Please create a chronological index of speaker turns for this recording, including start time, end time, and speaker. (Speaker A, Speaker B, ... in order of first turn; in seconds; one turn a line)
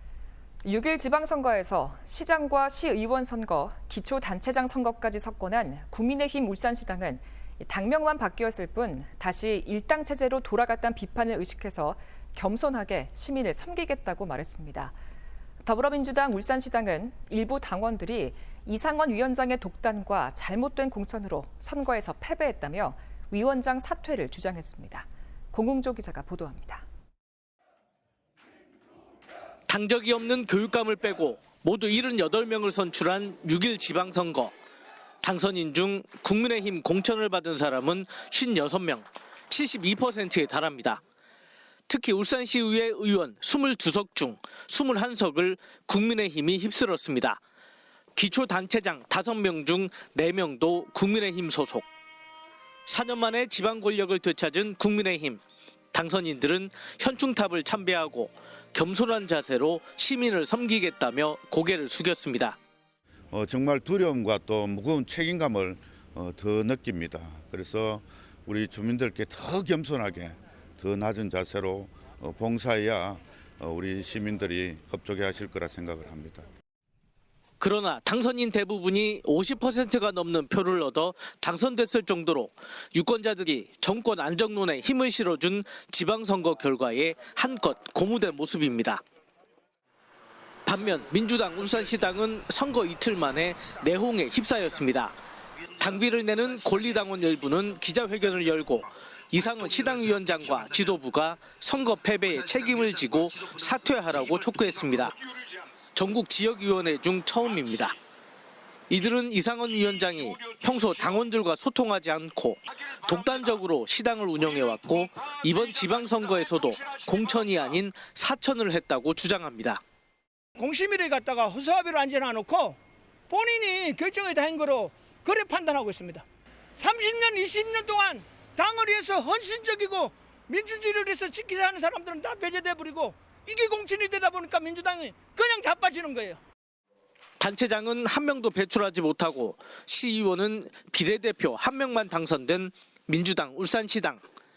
Speaker A: 0.6-14.9
Speaker A: 15.6-26.8
Speaker B: 29.7-34.5
Speaker B: 35.2-41.0
Speaker B: 41.9-47.4
Speaker B: 48.1-51.9
Speaker B: 52.9-55.4
Speaker B: 55.9-62.6
Speaker C: 63.3-76.5
Speaker B: 77.6-89.0
Speaker B: 90.7-95.2
Speaker B: 95.8-105.2
Speaker B: 105.9-108.0
Speaker B: 108.9-119.8
Speaker D: 120.6-122.8
Speaker D: 123.3-136.4
Speaker B: 137.4-144.2